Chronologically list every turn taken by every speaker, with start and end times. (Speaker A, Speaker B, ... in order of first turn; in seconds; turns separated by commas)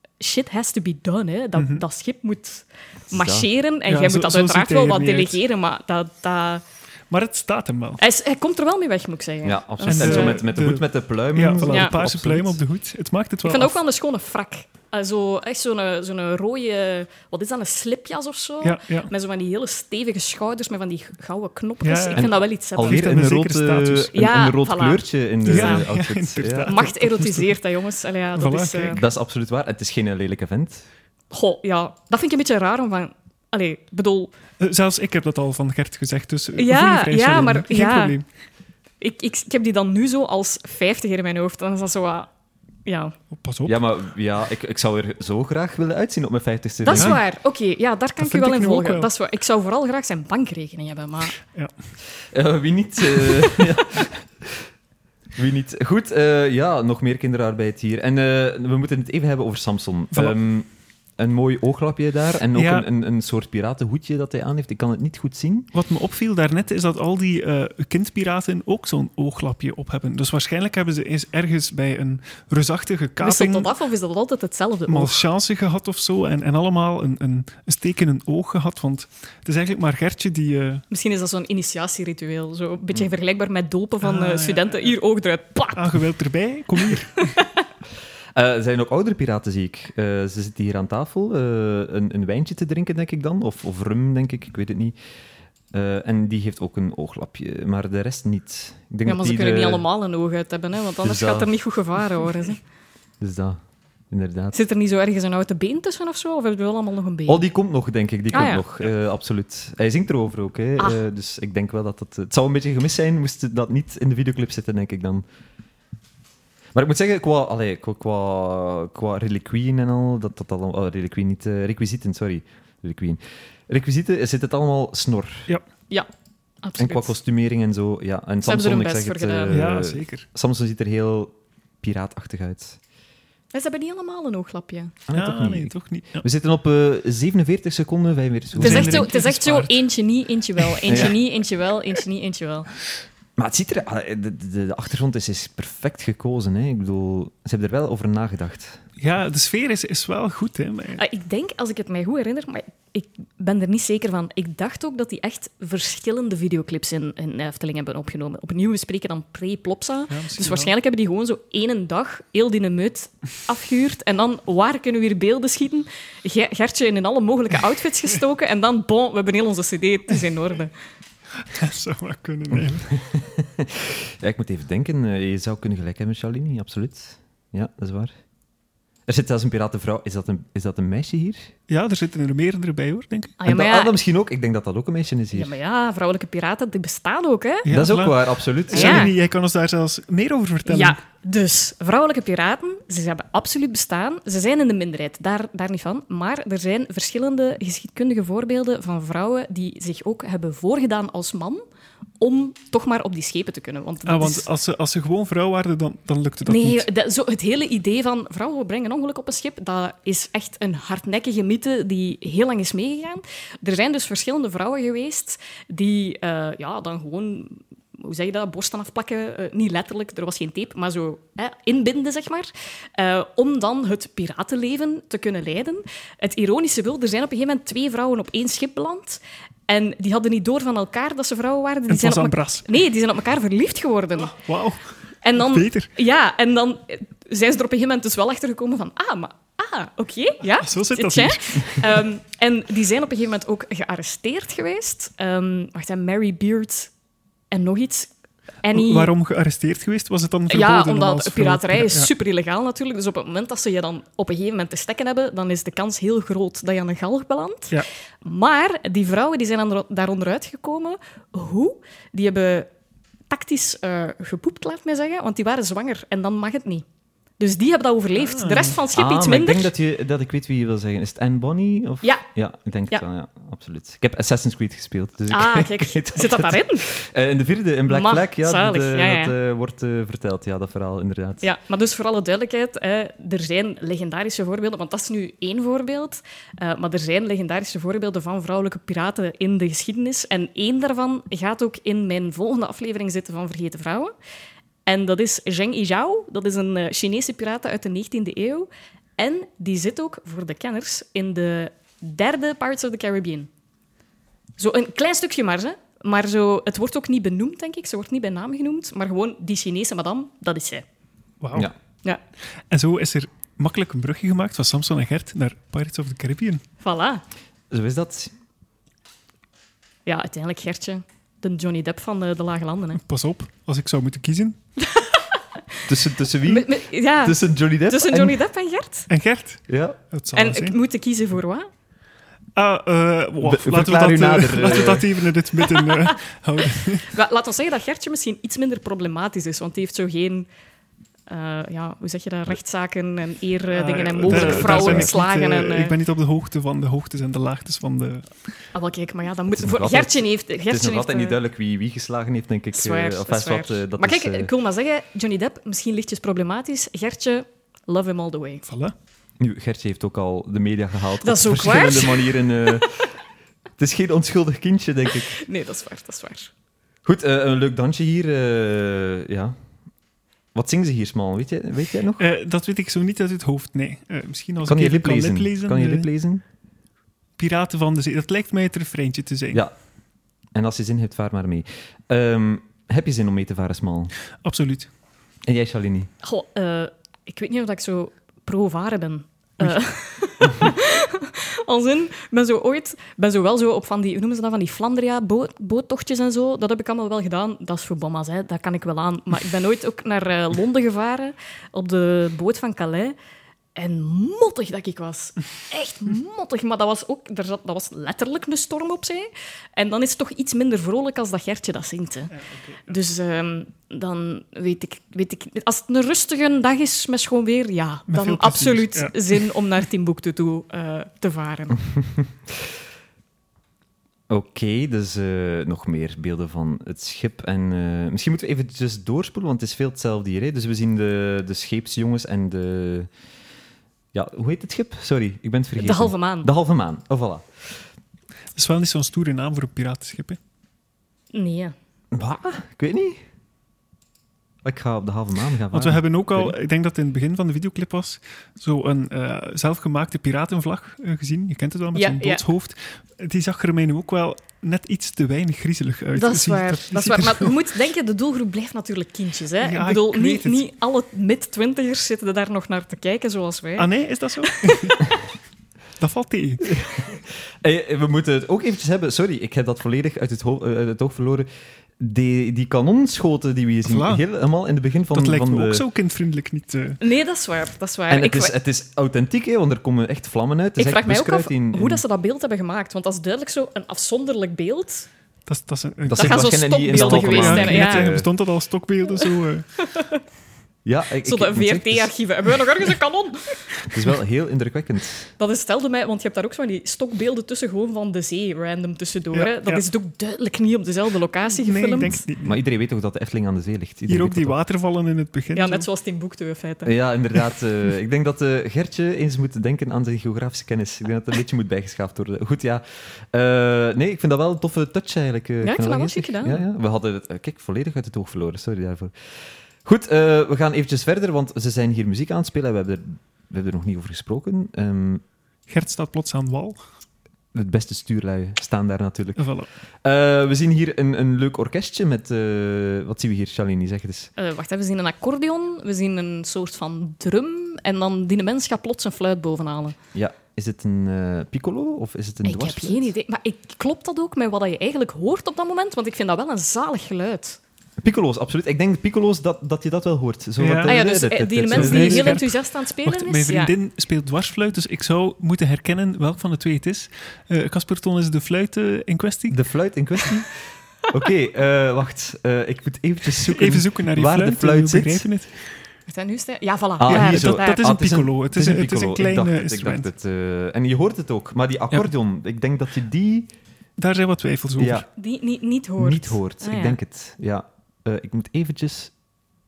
Speaker A: 0.2-6.6, Speaker B: 1.6-1.8, Speaker C: 3.1-3.5, Speaker B: 3.9-5.4, Speaker B: 7.1-8.0, Speaker A: 8.0-10.4, Speaker C: 9.4-12.6, Speaker B: 9.8-13.8, Speaker A: 11.7-11.9, Speaker A: 13.4-23.1, Speaker B: 18.6-19.1, Speaker B: 21.8-24.1, Speaker C: 22.1-26.9, Speaker A: 24.1-25.9, Speaker B: 25.4-27.6, Speaker A: 26.7-29.0, Speaker B: 28.3-29.0, Speaker C: 28.9-30.8, Speaker A: 31.3-34.3, Speaker B: 34.6-38.2, Speaker A: 36.5-38.1, Speaker A: 39.0-42.3, Speaker A: 42.9-43.1, Speaker B: 43.3-43.8, Speaker C: 43.6-47.2, Speaker A: 46.8-51.4, Speaker B: 46.9-47.2, Speaker B: 48.2-49.1, Speaker B: 51.4-51.7, Speaker C: 52.3-54.7, Speaker C: 55.4-65.7, Speaker B: 62.5-62.9, Speaker B: 65.7-73.7, Speaker A: 73.2-75.2, Speaker B: 74.9-80.8, Speaker A: 80.9-86.0, Speaker B: 84.0-84.8, Speaker B: 85.7-87.3, Speaker A: 87.2-87.5, Speaker C: 88.3-94.9, Speaker C: 95.7-99.8, Speaker A: 99.0-102.6, Speaker C: 101.0-101.5, Speaker C: 103.2-104.6, Speaker A: 104.5-107.4, Speaker C: 107.3-115.2, Speaker A: 108.3-108.6, Speaker C: 116.7-125.5, Speaker A: 126.6-127.1, Speaker C: 126.8-132.8, Speaker A: 128.4-129.6, Speaker B: 129.5-130.2, Speaker A: 133.5-134.9, Speaker C: 135.1-139.1, Speaker B: 135.1-136.2, Speaker B: 138.5-139.8, Speaker A: 138.6-142.7, Speaker B: 140.6-141.1, Speaker C: 140.9-141.2, Speaker C: 143.4-148.8, Speaker B: 149.0-151.0, Speaker A: 151.0-170.7, Speaker B: 160.1-160.7, Speaker B: 171.4-172.9, Speaker C: 172.5-178.1, Speaker C: 179.1-181.5, Speaker B: 181.7-183.4, Speaker A: 183.4-183.9, Speaker C: 183.4-185.5, Speaker A: 185.3-187.7, Speaker B: 187.6-191.0, Speaker C: 187.7-189.1, Speaker A: 188.7-189.1, Speaker A: 190.7-201.6, Speaker A: 202.2-204.4, Speaker B: 204.1-206.9, Speaker A: 206.4-234.3, Speaker B: 231.9-232.7, Speaker B: 234.3-235.9, Speaker A: 235.2-246.9, Speaker B: 240.6-242.0, Speaker A: 247.5-248.1, Speaker A: 248.6-249.1, Speaker B: 248.7-252.1, Speaker A: 250.5-262.7, Speaker A: 263.3-266.8, Speaker A: 267.4-269.7, Speaker B: 268.2-268.8, Speaker C: 268.9-281.4, Speaker A: 275.3-276.9, Speaker A: 277.9-279.3, Speaker A: 281.4-294.1, Speaker A: 294.9-303.5, Speaker A: 304.6-310.8, Speaker B: 311.4-311.7, Speaker B: 312.7-316.6, Speaker A: 316.8-317.2, Speaker C: 317.7-318.3, Speaker A: 320.1-323.0, Speaker B: 323.0-324.6, Speaker A: 324.8-325.8, Speaker C: 325.9-328.4, Speaker A: 326.4-329.1, Speaker B: 329.1-330.8, Speaker C: 329.7-330.0, Speaker A: 330.3-331.7, Speaker B: 332.6-337.1, Speaker C: 333.4-335.2, Speaker A: 335.6-336.2, Speaker A: 336.8-340.5, Speaker A: 341.3-345.9, Speaker B: 343.7-348.3, Speaker C: 344.2-345.1, Speaker A: 348.7-351.4, Speaker C: 349.6-354.5, Speaker A: 352.7-358.6, Speaker B: 358.6-358.9, Speaker C: 359.4-363.0, Speaker A: 361.2-362.9, Speaker C: 363.8-365.4, Speaker A: 365.3-366.5, Speaker C: 367.0-369.5, Speaker C: 370.5-372.2, Speaker B: 372.2-376.1, Speaker C: 374.6-376.4, Speaker B: 377.4-379.6, Speaker C: 380.5-384.1, Speaker B: 384.4-384.9, Speaker C: 385.4-386.1, Speaker A: 386.2-403.1, Speaker A: 403.7-412.3, Speaker B: 412.3-412.8, Speaker A: 412.9-421.8, Speaker B: 418.1-419.5, Speaker C: 421.9-422.7, Speaker C: 424.3-433.1, Speaker C: 434.1-437.4, Speaker A: 435.8-436.5, Speaker B: 438.5-440.4, Speaker A: 441.3-441.7, Speaker C: 442.1-443.2, Speaker C: 444.6-446.6, Speaker B: 445.7-457.5, Speaker A: 451.9-452.4, Speaker A: 456.1-463.9, Speaker B: 459.6-460.6, Speaker B: 463.8-465.0, Speaker A: 464.4-465.0, Speaker B: 466.0-466.8, Speaker C: 466.7-471.5, Speaker C: 472.0-475.8, Speaker B: 473.8-474.2, Speaker B: 475.1-477.0, Speaker A: 477.0-478.5, Speaker C: 478.1-482.0, Speaker A: 480.8-485.1, Speaker B: 485.5-489.6, Speaker C: 486.1-488.3, Speaker A: 486.1-488.1, Speaker A: 489.2-490.2, Speaker C: 490.8-492.1, Speaker A: 491.2-493.6, Speaker C: 493.9-495.3, Speaker A: 495.4-502.2, Speaker B: 499.3-499.8, Speaker B: 501.6-502.6, Speaker C: 502.4-504.6, Speaker B: 504.1-505.9, Speaker A: 505.5-506.9, Speaker C: 506.8-525.2, Speaker A: 515.6-516.6, Speaker B: 525.7-526.8, Speaker C: 527.5-534.3, Speaker B: 529.4-529.7, Speaker A: 534.4-540.0, Speaker C: 540.1-543.1, Speaker A: 542.4-547.6, Speaker C: 548.0-552.4, Speaker B: 550.6-551.0, Speaker A: 550.8-553.7, Speaker B: 551.7-559.6, Speaker C: 559.5-565.3, Speaker B: 563.5-565.7, Speaker A: 566.1-567.8, Speaker C: 567.0-573.5, Speaker B: 567.1-570.1, Speaker B: 574.0-575.0, Speaker C: 574.8-575.0, Speaker A: 575.2-577.0, Speaker C: 576.0-579.1